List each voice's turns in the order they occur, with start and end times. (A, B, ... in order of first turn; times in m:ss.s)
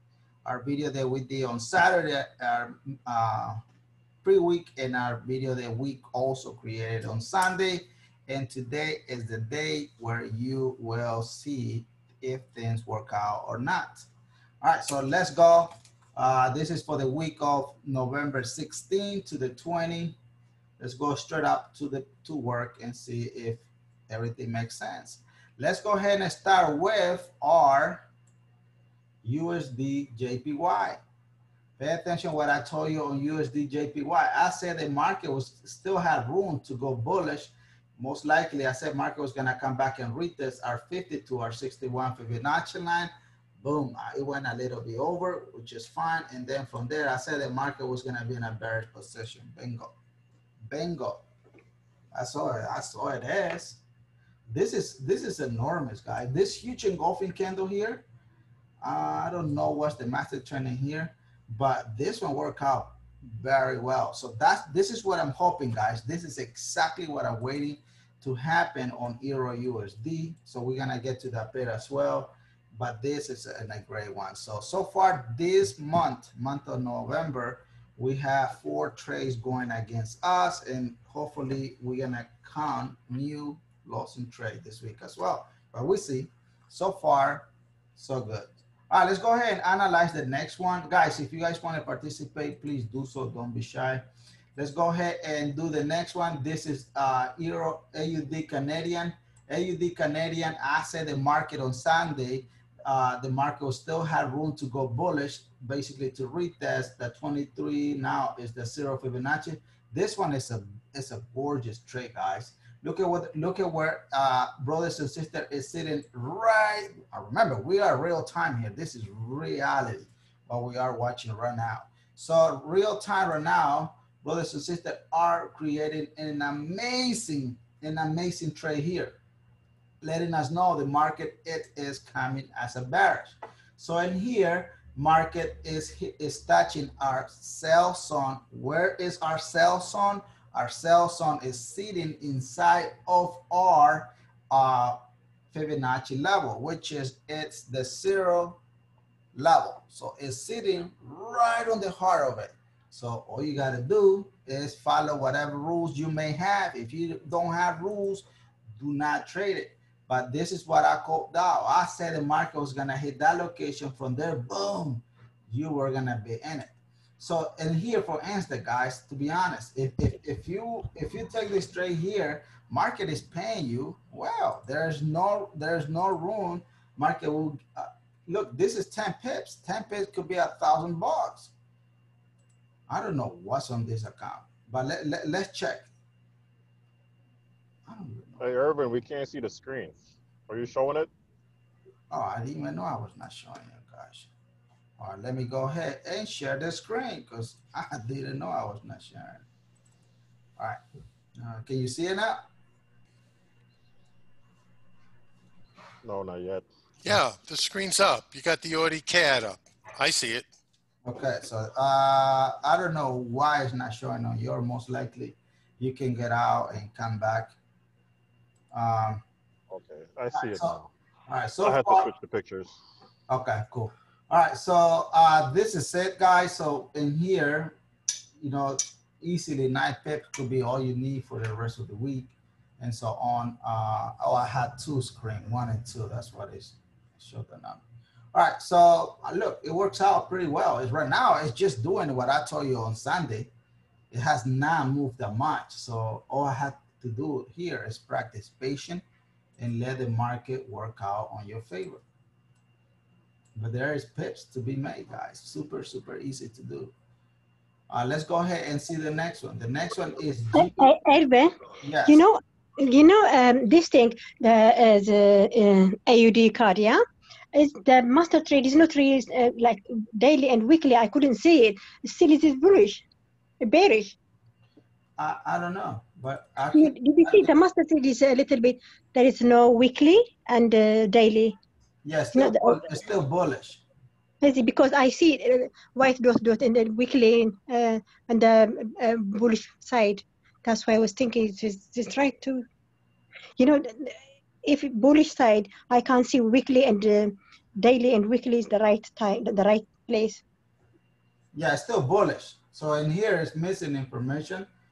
0:00.4-0:03.6 A
0:04.2-0:14.0 A
0:14.6-0:20.2 A
0:20.8-0:28.0 A
0:29.2-0:31.0 A
0:31.8-0:49.9 A
0:50.6-0:51.2 A
0:52.1-0:53.8 A
0:54.5-0:58.1 A
0:58.8-1:34.0 A
1:34.6-2:09.2 A
2:10.0-2:25.0 A
2:25.5-2:28.6 A
2:29.3-2:38.2 A
2:38.8-3:01.5 A
3:02.9-3:05.9 A
3:07.9-3:08.4 A
3:08.4-3:11.1 B
3:12.1-3:14.3 A
3:15.0-3:19.4 A
3:21.4-3:22.4 A
3:26.0-3:26.7 B
3:27.0-3:30.5 C
3:31.0-3:37.6 A
3:38.7-3:39.2 A
3:39.7-3:40.9 B
3:40.3-3:40.8 A
3:41.3-3:42.1 A
3:41.6-3:42.8 B
3:43.3-3:47.8 A
3:48.4-3:57.8 A
3:58.3-4:03.5 A
4:04.1-4:09.0 A
4:09.6-4:12.0 A
4:13.6-4:16.9 A
4:17.9-4:20.9 A
4:20.5-4:27.0 D
4:21.8-4:22.2 A
4:27.5-4:33.0 D
4:33.6-4:34.2 D
4:35.2-4:37.5 A
4:36.7-4:41.6 D
4:42.0-4:43.8 A
4:42.3-4:42.8 D
4:44.4-4:52.6 D
4:53.6-5:00.4 D
5:01.5-5:04.7 A